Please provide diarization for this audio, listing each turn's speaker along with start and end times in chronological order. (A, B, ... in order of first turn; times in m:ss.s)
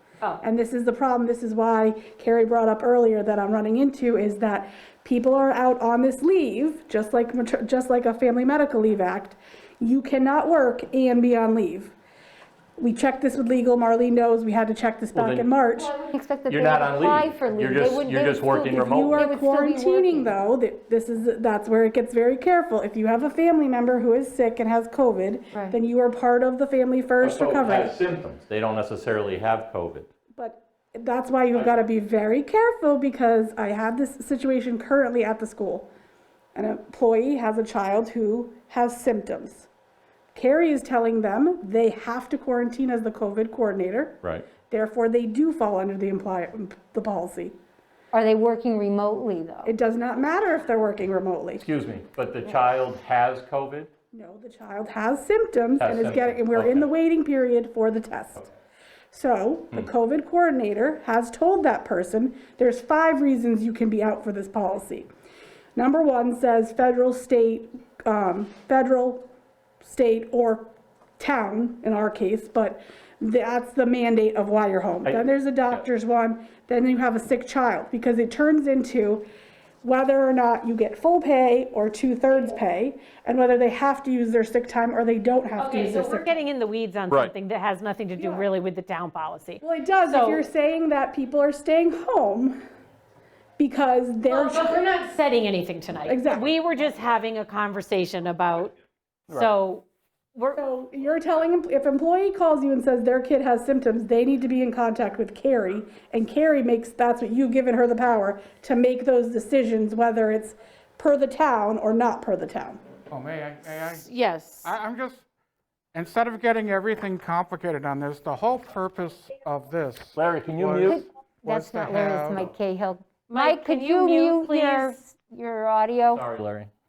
0:00.4-0:11.9 A
0:12.8-0:15.9 A
0:15.1-0:15.5 B
0:15.7-0:20.3 C
0:16.5-0:19.2 B
0:18.7-0:28.0 A
0:27.2-0:30.1 B
0:30.4-0:35.9 A
0:36.6-0:39.7 A
0:40.3-0:47.6 A
0:44.2-0:44.5 B
0:48.1-0:49.7 C
0:49.6-0:51.7 A
0:51.6-0:53.9 B
0:54.1-0:58.5 A
0:55.8-0:56.9 B
0:59.1-1:05.1 A
1:05.8-1:09.3 A
1:09.8-1:19.2 A
1:19.8-1:26.3 A
1:25.6-1:30.4 D
1:28.2-1:28.5 A
1:29.6-1:32.6 A
1:33.6-1:34.9 A
1:34.2-1:38.8 D
1:36.1-1:36.5 A
1:39.3-1:40.6 D
1:40.5-1:52.8 A
1:53.1-1:54.1 E
1:54.0-1:54.7 D
1:54.6-1:55.2 E
1:55.9-2:02.4 E
2:00.1-2:01.0 B
2:00.8-2:06.2 C
2:03.3-2:05.0 D
2:06.1-2:06.7 B